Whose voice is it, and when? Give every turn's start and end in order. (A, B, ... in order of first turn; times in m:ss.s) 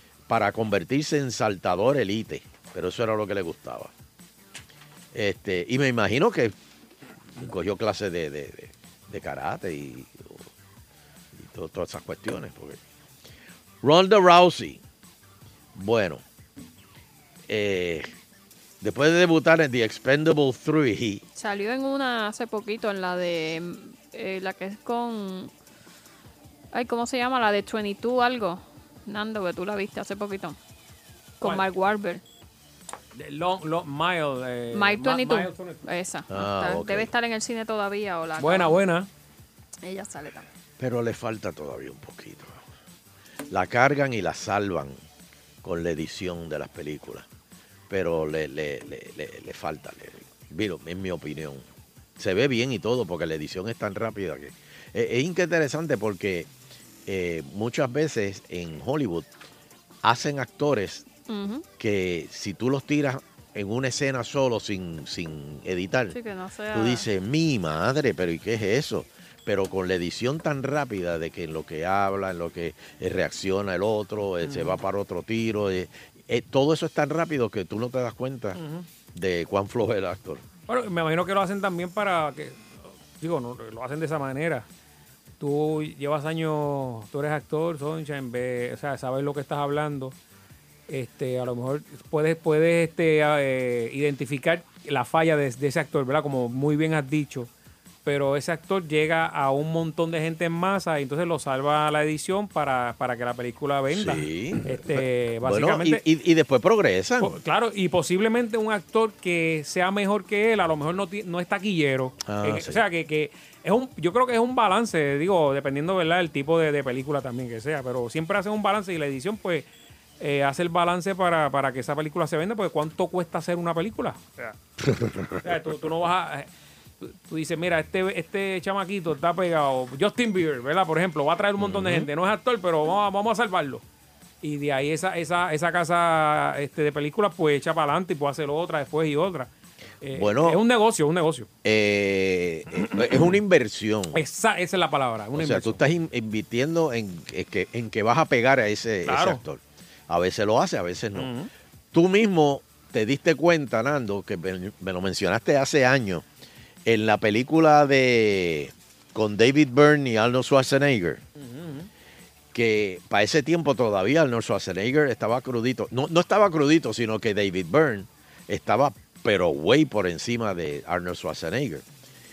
0:00.3-0:03.9 A
0:05.1-0:06.5 A
0:07.4-0:10.5 A
0:11.3-0:12.8 A
0:13.8-0:14.8 A
0:15.7-0:16.2 A
0:17.5-0:18.1 A
0:18.8-0:21.2 A
0:21.4-0:25.5 B
0:26.7-0:30.6 B
0:31.4-0:32.2 B
0:33.1-0:35.8 C
0:34.7-0:38.8 B
0:36.3-0:37.1 A
0:38.4-0:39.1 C
0:39.8-0:40.5 B
0:40.8-0:42.6 A
0:43.5-0:45.0 A
0:45.6-0:47.2 A
0:47.9-0:51.6 A
0:52.2-0:56.5 A
0:57.0-0:59.3 A
1:00.0-1:01.0 A
1:01.3-1:01.6 B
1:01.8-1:06.2 A
1:06.1-1:07.0 B
1:06.7-1:18.6 A
1:14.4-1:14.8 C
1:18.6-1:18.9 C
1:19.1-1:20.4 A
1:20.7-1:24.6 C
1:25.4-1:30.1 C
1:30.9-1:37.5 C
1:38.0-1:46.0 C
1:43.9-1:47.3 A
1:47.2-1:59.7 C
1:52.2-1:52.8 A
2:00.2-2:04.6 C
2:04.9-2:05.4 A
2:05.4-2:06.5 C
2:07.0-2:13.8 C
2:11.7-2:12.0 A
2:14.4-2:19.5 C
2:20.0-2:21.5 C
2:20.1-2:20.6 A
2:21.6-2:24.2 A
2:24.1-2:25.8 C
2:25.3-2:31.3 A
2:29.0-2:29.4 C
2:31.2-2:31.5 C
2:31.9-2:36.2 A
2:36.8-2:41.2 A
2:41.4-2:41.9 C
2:42.5-2:51.8 A